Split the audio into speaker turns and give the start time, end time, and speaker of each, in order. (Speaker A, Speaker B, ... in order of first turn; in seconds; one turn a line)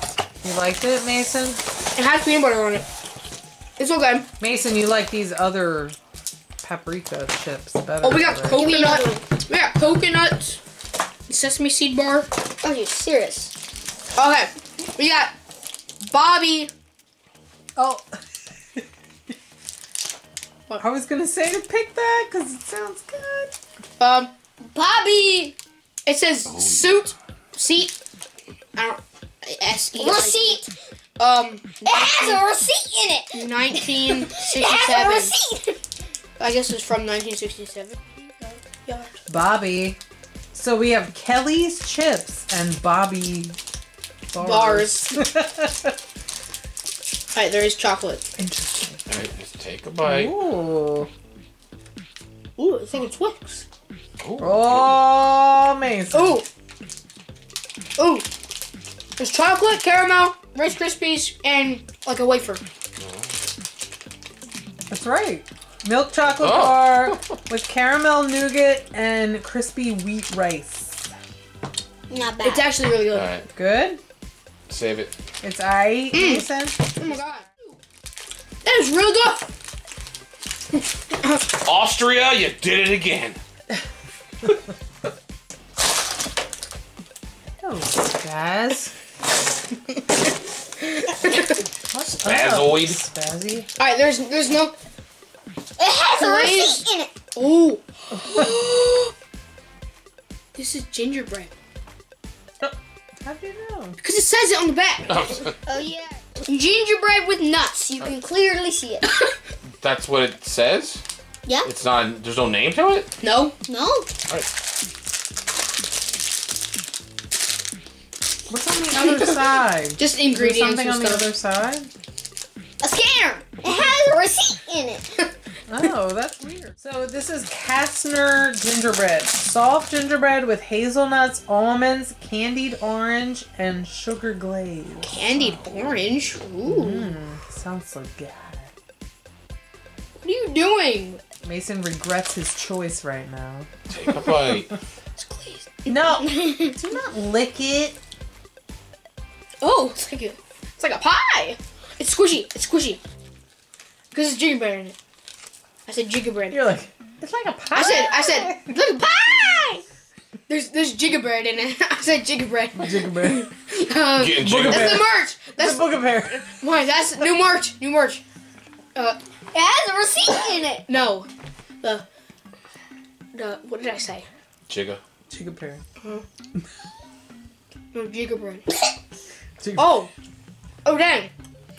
Speaker A: 0.4-1.6
Speaker B: 2.0-2.9
Speaker B: 3.8-4.3
Speaker A: 4.4-6.0
Speaker A: 6.6-8.7
Speaker B: 8.0-10.6
Speaker C: 8.5-9.2
Speaker B: 11.3-12.3
Speaker C: 12.6-13.5
Speaker B: 14.2-15.3
Speaker B: 16.1-16.7
Speaker A: 17.8-18.1
Speaker A: 20.8-23.5
Speaker B: 24.0-24.3
Speaker C: 24.7-25.6
Speaker B: 26.1-28.0
Speaker D: 26.5-27.0
Speaker B: 28.8-30.6
Speaker C: 30.0-30.7
Speaker B: 31.2-32.5
Speaker C: 31.9-33.4
Speaker B: 33.3-35.3
Speaker C: 34.1-35.8
Speaker B: 36.4-39.1
Speaker A: 39.3-40.0
Speaker A: 40.5-43.6
Speaker A: 44.3-45.9
Speaker B: 44.4-45.2
Speaker B: 47.3-48.2
Speaker A: 48.4-49.0
Speaker D: 49.1-50.3
Speaker A: 50.0-51.1
Speaker B: 52.6-53.6
Speaker D: 54.2-55.1
Speaker A: 54.4-56.4
Speaker B: 56.1-56.5
Speaker B: 58.0-58.3
Speaker B: 59.2-62.6
Speaker D: 63.0-63.4
Speaker A: 64.9-71.1
Speaker D: 66.4-67.2
Speaker C: 72.1-72.7
Speaker B: 72.4-73.4
Speaker D: 73.1-73.5
Speaker A: 73.5-74.0
Speaker D: 74.7-75.1
Speaker A: 75.4-76.8
Speaker B: 76.1-77.8
Speaker B: 78.6-79.5
Speaker B: 80.7-81.5
Speaker D: 81.6-83.4
Speaker A: 87.6-88.9
Speaker B: 90.9-91.6
Speaker A: 91.9-93.7
Speaker D: 92.2-93.0
Speaker B: 93.8-94.7
Speaker C: 95.8-97.1
Speaker B: 96.1-99.1
Speaker B: 100.5-101.5
Speaker A: 102.6-104.0
Speaker B: 104.0-105.3
Speaker D: 105.1-105.5
Speaker C: 105.7-106.2
Speaker B: 106.5-107.8
Speaker C: 107.7-109.1
Speaker D: 109.7-111.0
Speaker D: 111.7-113.1
Speaker B: 113.2-113.5
Speaker C: 113.7-114.1
Speaker A: 118.5-121.9
Speaker B: 120.0-121.3
Speaker C: 122.8-125.0
Speaker A: 125.7-135.6
Speaker B: 135.0-137.2
Speaker A: 136.7-138.7
Speaker B: 140.2-141.2
Speaker A: 141.4-143.7
Speaker D: 143.9-144.7
Speaker B: 145.2-146.1
Speaker A: 145.9-148.0
Speaker B: 149.6-153.0
Speaker B: 154.1-155.0
Speaker B: 155.9-156.6
Speaker A: 156.5-158.7
Speaker B: 157.7-159.8
Speaker B: 160.5-168.2
Speaker A: 162.8-163.5
Speaker D: 164.2-165.1
Speaker A: 164.4-166.6
Speaker C: 169.5-170.9
Speaker B: 170.9-171.3
Speaker B: 173.3-174.3
Speaker D: 174.7-175.0
Speaker A: 175.3-175.8
Speaker B: 177.9-178.6
Speaker A: 179.6-179.9
Speaker B: 179.8-180.1
Speaker B: 180.8-181.3